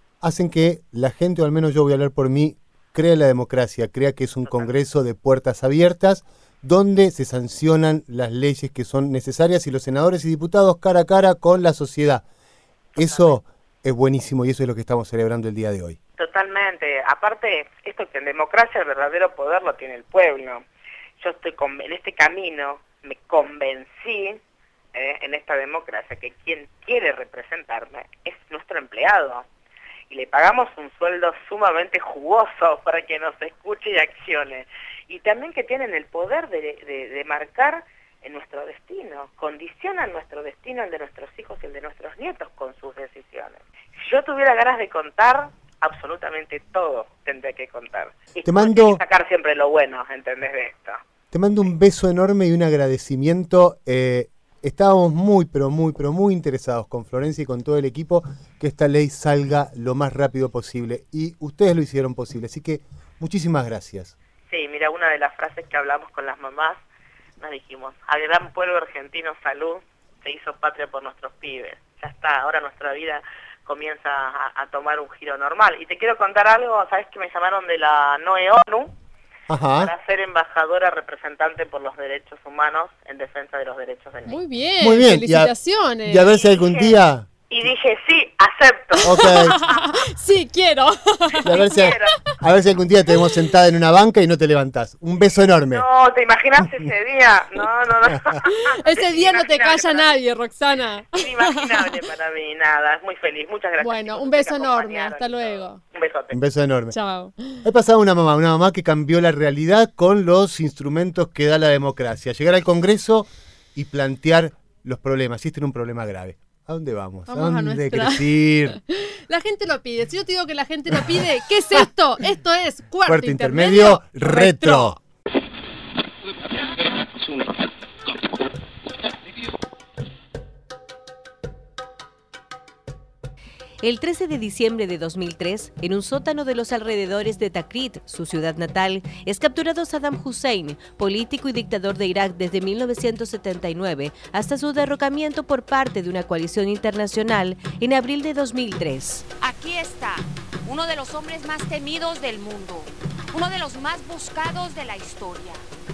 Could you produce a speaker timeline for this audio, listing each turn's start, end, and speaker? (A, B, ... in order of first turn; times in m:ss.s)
0:00.2-0:12.2 A
0:04.4-0:04.7 B
0:12.9-0:13.3 B
0:13.0-0:16.0 A
0:16.2-0:20.6 B
0:21.2-0:24.4 B
0:24.9-0:29.4 B
0:30.1-0:51.0 B
0:48.4-0:49.0 A
0:51.3-1:04.1 A
1:04.5-1:06.8 B
1:07.4-1:18.9 B
1:19.5-1:19.9 A
1:19.8-1:24.4 B
1:24.3-1:26.3 C
1:24.8-1:27.3 A
1:26.3-1:27.0 B
1:27.5-1:29.9 B
1:29.0-1:29.6 A
1:29.0-1:31.7 C
1:31.4-1:35.8 A
1:31.4-1:32.2 B
1:35.7-1:40.1 B
1:38.4-1:41.6 C
1:41.1-1:46.4 B
1:43.8-1:45.8 C
1:46.3-1:47.0 A
1:46.9-1:47.6 C
1:47.6-1:58.8 A
1:57.3-2:05.0 C
2:03.0-2:05.0 A
2:13.8-2:29.3 D
2:29.3-2:35.6 E